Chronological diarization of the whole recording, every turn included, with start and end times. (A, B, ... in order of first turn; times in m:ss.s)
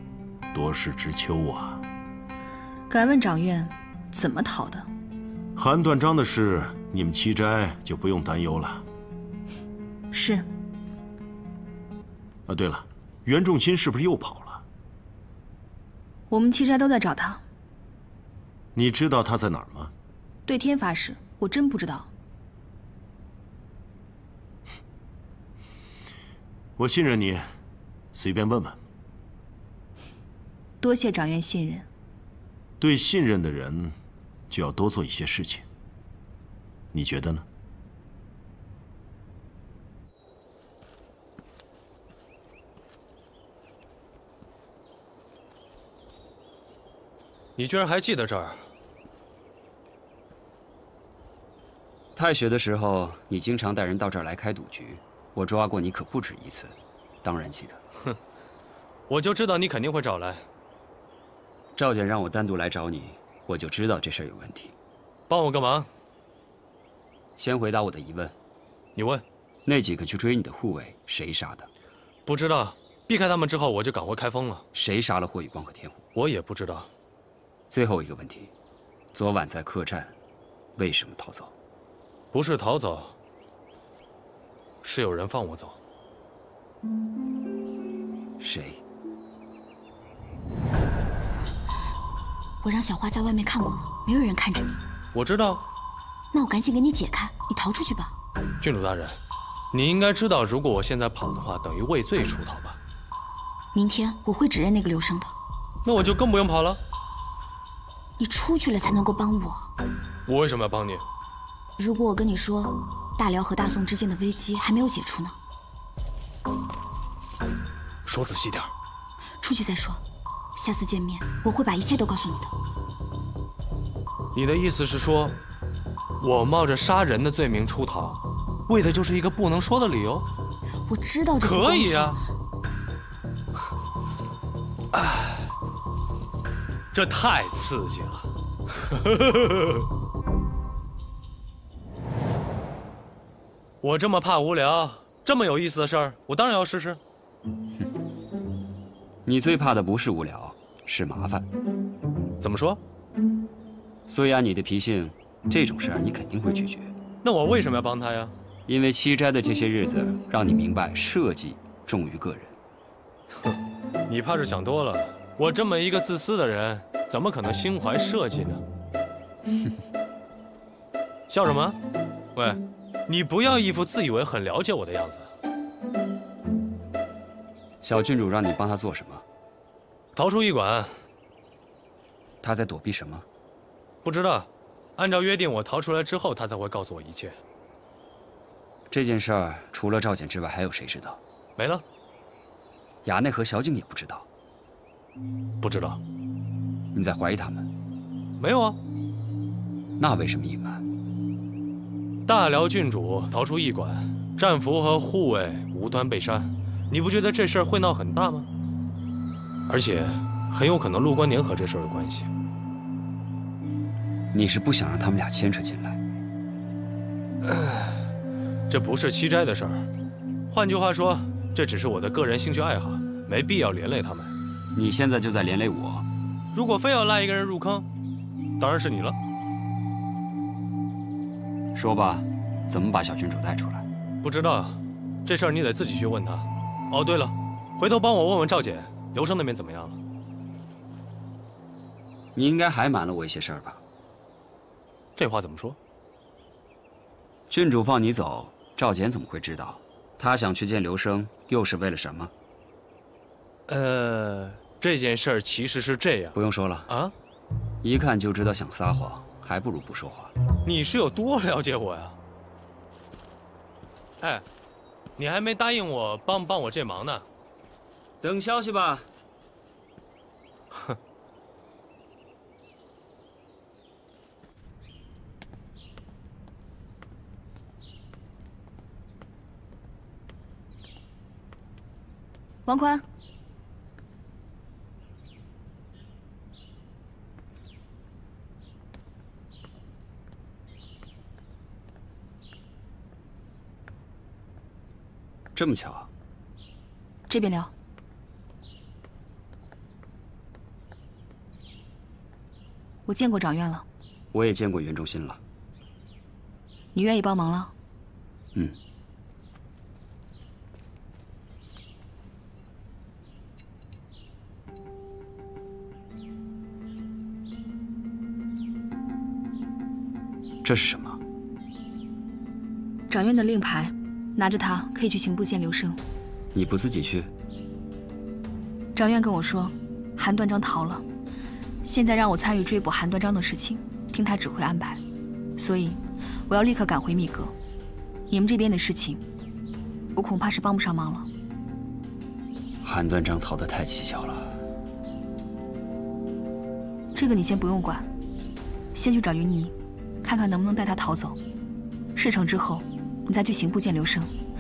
0:00.5-0:01.8 A
0:02.9-0:04.9 B
0:05.6-0:08.8 A
0:10.1-0:10.5 B
0:12.5-0:14.6 A
0:16.3-0:17.4 B
0:18.8-0:19.9 A
0:20.5-0:22.1 B
0:26.8-0:27.4 A
0:28.1-0:28.8 A
0:30.8-0:31.9 B
0:32.8-0:34.0 A
0:34.5-0:35.6 A
0:36.9-0:37.4 A
0:47.6-0:48.6 C
0:52.2-0:57.8 D
0:59.1-1:00.5 C
1:01.8-1:04.8 D
1:05.3-1:05.9 C
1:07.4-1:08.4 D
1:09.0-1:09.2 C
1:09.7-1:11.7 D
1:12.3-1:14.6 C
1:14.8-1:16.0 D
1:16.2-1:16.9 C
1:17.7-1:18.5 D
1:19.1-1:20.2 D
1:20.8-1:21.5 D
1:22.3-1:23.2 C
1:24.8-1:25.8 C
1:28.4-1:28.8 D
1:32.6-1:34.8 E
1:35.1-1:35.6 C
1:36.3-1:38.2 E
1:38.6-1:39.2 C
1:39.7-1:42.8 C
1:43.7-1:45.4 E
1:45.8-1:46.8 C
1:48.2-1:49.7 E
1:50.3-1:51.0 C
1:51.8-1:55.4 E
1:58.0-1:58.7 C
1:59.4-2:00.0 E
2:00.6-2:02.6 E
2:04.3-2:05.4 C
2:06.2-2:10.3 C
2:10.9-2:12.2 E
2:11.4-2:12.2 C
2:14.9-2:15.4 C
2:16.9-2:19.8 C
2:23.8-2:27.0 C
2:29.2-2:31.5 D
2:32.4-2:32.8 C
2:34.1-2:36.9 D
2:37.2-2:38.3 C
2:38.7-2:42.6 D
2:44.1-2:48.6 C
2:51.3-2:51.8 C
2:52.4-2:55.3 C
2:57.8-2:59.2 D
3:00.1-3:00.9 C
3:02.4-3:03.3 D
3:04.0-3:07.4 C
3:08.9-3:11.2 D
3:11.6-3:11.8 C
3:13.0-3:14.3 D
3:15.6-3:16.0 C
3:16.9-3:17.7 D
3:18.4-3:18.8 C
3:20.0-3:20.8 D
3:22.3-3:28.5 C
3:29.7-3:32.3 C
3:34.3-3:36.0 D
3:37.4-3:38.0 C
3:38.7-3:39.9 C
3:40.5-3:44.3 C
3:44.7-3:46.1 D
3:46.5-3:47.9 C
3:48.6-3:49.2 C
3:51.8-3:53.8 D
3:54.2-4:00.0 C
4:02.4-4:03.8 D
4:05.2-4:05.8 C
4:07.5-4:12.3 D
4:13.7-4:16.4 C
4:16.4-4:16.9 D
4:16.9-4:17.1 C
4:17.8-4:20.3 D
4:20.6-4:22.2 C
4:24.2-4:24.4 C
4:25.2-4:27.2 C
4:28.2-4:29.1 D
4:42.7-4:43.0 B
4:55.6-4:56.1 D
4:57.3-4:57.7 B
5:03.1-5:03.9 B
5:04.3-5:05.4 D
5:06.9-5:07.7 B
5:20.6-5:21.2 D
5:23.1-5:26.0 B
5:26.5-5:27.3 D
5:29.0-5:31.0 B
5:31.8-5:35.0 B
5:35.6-5:37.5 B
5:38.3-5:39.2 B
5:40.2-5:41.3 B
5:42.8-5:44.6 D
5:47.1-5:48.1 B
5:48.9-5:51.4 B
5:52.2-5:54.3 B